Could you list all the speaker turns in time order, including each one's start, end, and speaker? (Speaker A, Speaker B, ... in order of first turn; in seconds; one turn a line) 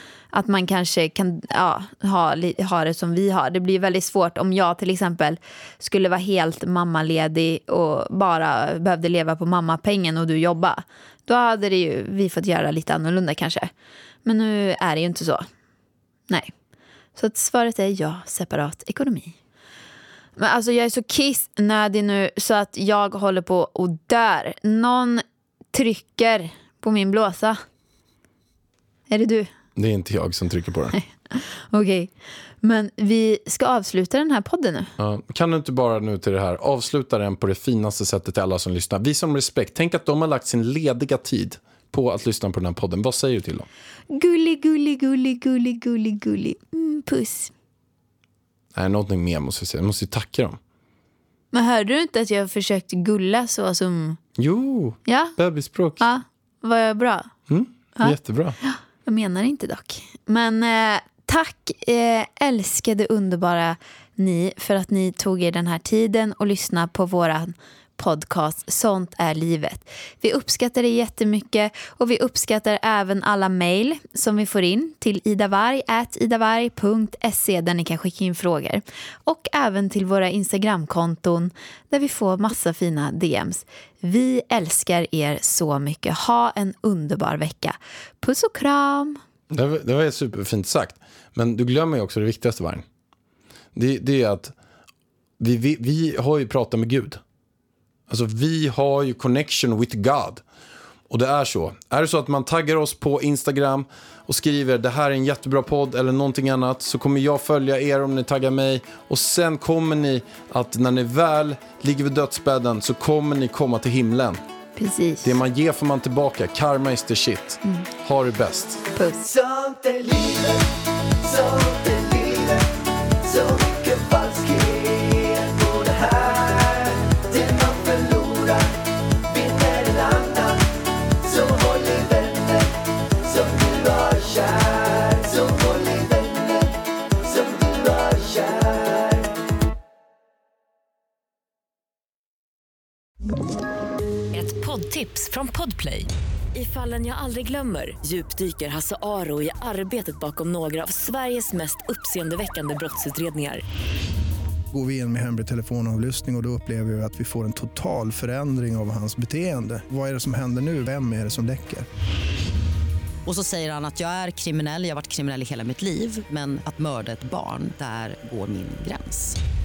Speaker A: 0.3-13.7
Speaker A: 14.2-15.5
Speaker A: 17.1-19.3
Speaker A: 20.4-27.6
Speaker A: 29.1-29.5
Speaker B: 29.8-31.0
Speaker A: 30.9-34.9
Speaker B: 35.0-43.7
Speaker A: 44.1-47.5
Speaker B: 48.7-50.6
Speaker A: 51.5-54.2
Speaker B: 54.4-56.0
Speaker A: 55.1-55.3
Speaker A: 56.0-57.3
Speaker B: 57.5-58.6
Speaker A: 58.0-89.2
Speaker B: 89.5-92.8
Speaker B: 93.7-94.5
Speaker B: 95.4-97.2
Speaker B: 98.1-100.4
Speaker B: 101.1-114.4
Speaker A: 114.8-115.3
Speaker B: 115.2-118.8
Speaker A: 119.0-119.2
Speaker C: 119.2-130.7
Speaker C: 131.2-139.3
Speaker D: 144.3-153.6
Speaker E: 154.7-161.9
Speaker F: 163.2-169.4